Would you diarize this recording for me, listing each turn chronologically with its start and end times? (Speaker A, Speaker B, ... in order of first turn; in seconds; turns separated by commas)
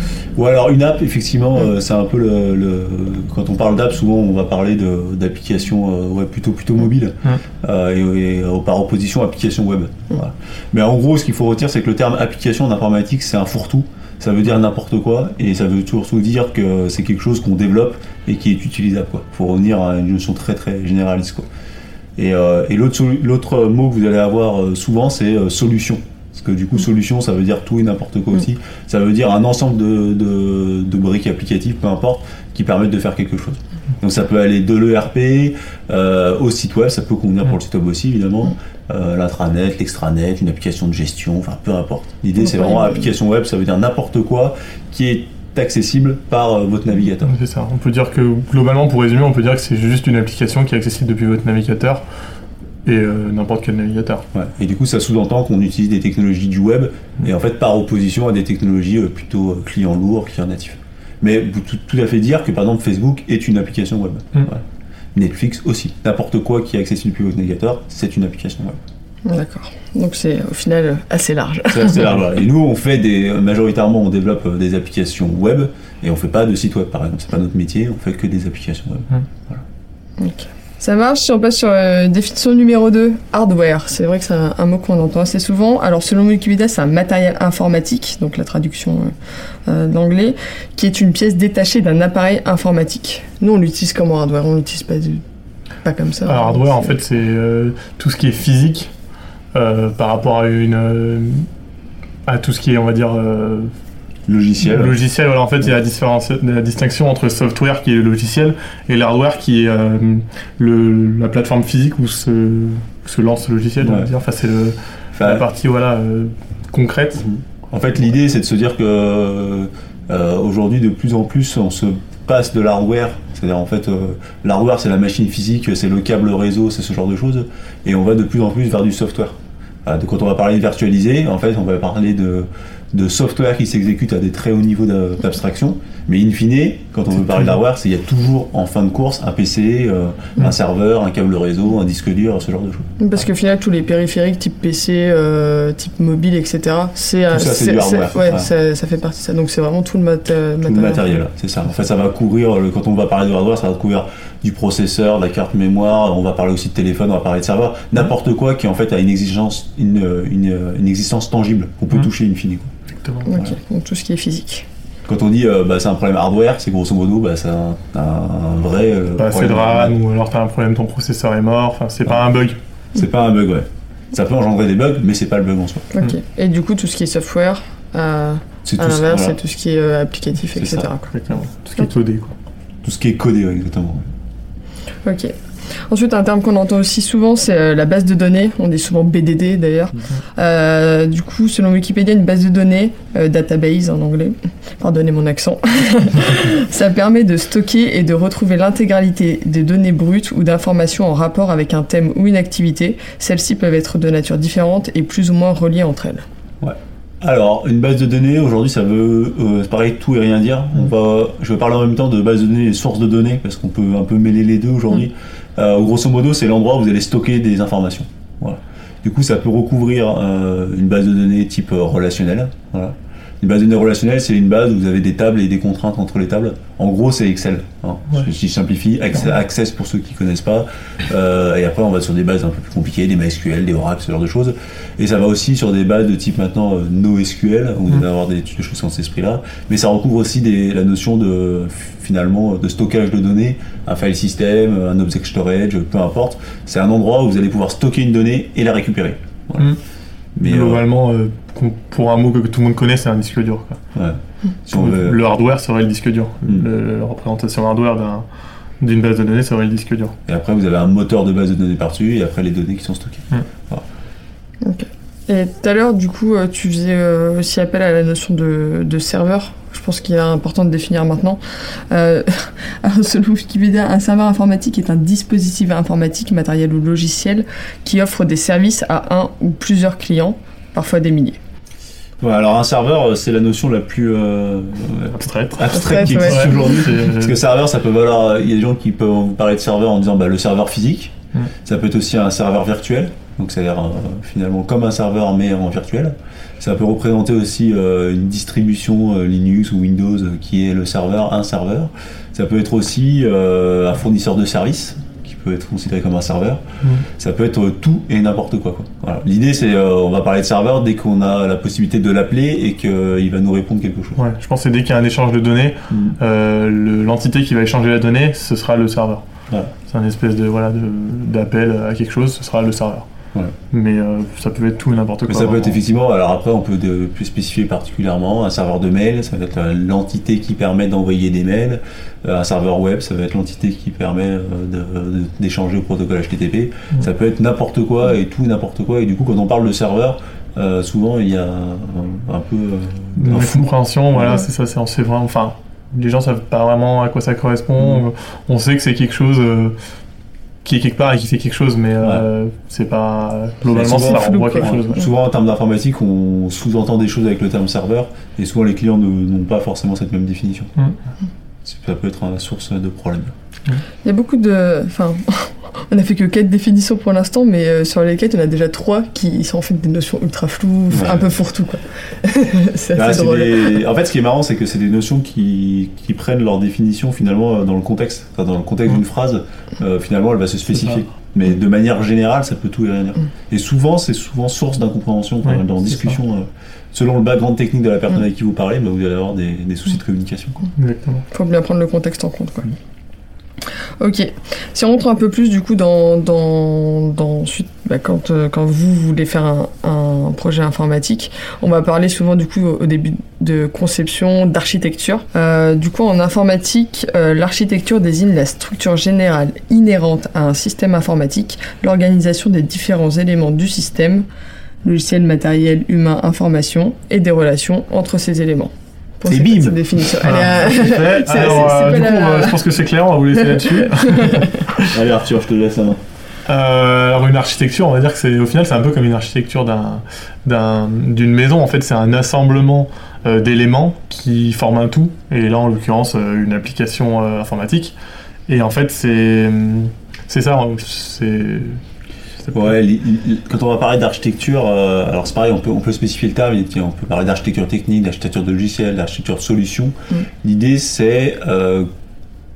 Speaker A: 0.4-21.5, Speaker A: 22.2-47.4, Speaker B: 42.6-42.9, Speaker C: 47.2-52.0, Speaker C: 52.9-54.2, Speaker A: 54.3-64.6, Speaker A: 65.2-68.8, Speaker B: 69.3-72.0, Speaker A: 71.7-79.6, Speaker B: 80.2-89.1, Speaker B: 89.7-95.2, Speaker B: 95.8-97.0, Speaker C: 96.2-98.9, Speaker C: 99.5-101.5, Speaker C: 102.3-103.7, Speaker A: 104.3-105.0, Speaker C: 104.6-117.2, Speaker A: 113.8-114.1, Speaker A: 115.2-115.5, Speaker A: 117.2-143.2, Speaker B: 143.0-151.2, Speaker A: 147.3-148.5, Speaker A: 150.6-162.7, Speaker C: 162.9-163.4, Speaker B: 163.3-164.7, Speaker A: 165.1-170.0, Speaker C: 169.2-172.6, Speaker A: 172.1-172.4, Speaker A: 172.9-175.9, Speaker B: 175.9-181.1, Speaker A: 178.7-179.4, Speaker A: 180.6-180.9, Speaker C: 181.1-182.3, Speaker A: 182.8-184.1, Speaker B: 185.0-185.3, Speaker B: 185.9-206.2, Speaker A: 206.6-249.8, Speaker A: 250.4-250.8, Speaker C: 250.4-253.8, Speaker A: 253.9-255.2, Speaker C: 254.7-258.2, Speaker C: 258.8-260.1, Speaker A: 260.3-263.8, Speaker B: 264.6-281.4, Speaker A: 282.2-314.2, Speaker C: 285.1-287.4, Speaker B: 285.7-286.8, Speaker C: 314.2-319.2, Speaker A: 315.9-316.2, Speaker C: 319.9-323.1, Speaker C: 323.7-325.8, Speaker A: 325.3-344.4, Speaker C: 343.2-349.8, Speaker A: 347.8-348.0, Speaker C: 350.6-355.1, Speaker A: 353.7-360.7, Speaker B: 354.0-354.8, Speaker A: 361.6-363.4, Speaker B: 364.0-373.8, Speaker A: 370.9-371.2, Speaker A: 372.9-390.7, Speaker C: 385.4-386.2, Speaker C: 390.8-391.3, Speaker B: 391.3-392.7, Speaker B: 394.0-414.3, Speaker B: 414.8-422.6, Speaker A: 419.2-420.3, Speaker C: 420.2-424.9, Speaker B: 423.6-424.5, Speaker A: 424.9-426.0, Speaker C: 426.5-437.9, Speaker C: 438.5-441.8, Speaker C: 442.4-442.7, Speaker A: 442.5-451.9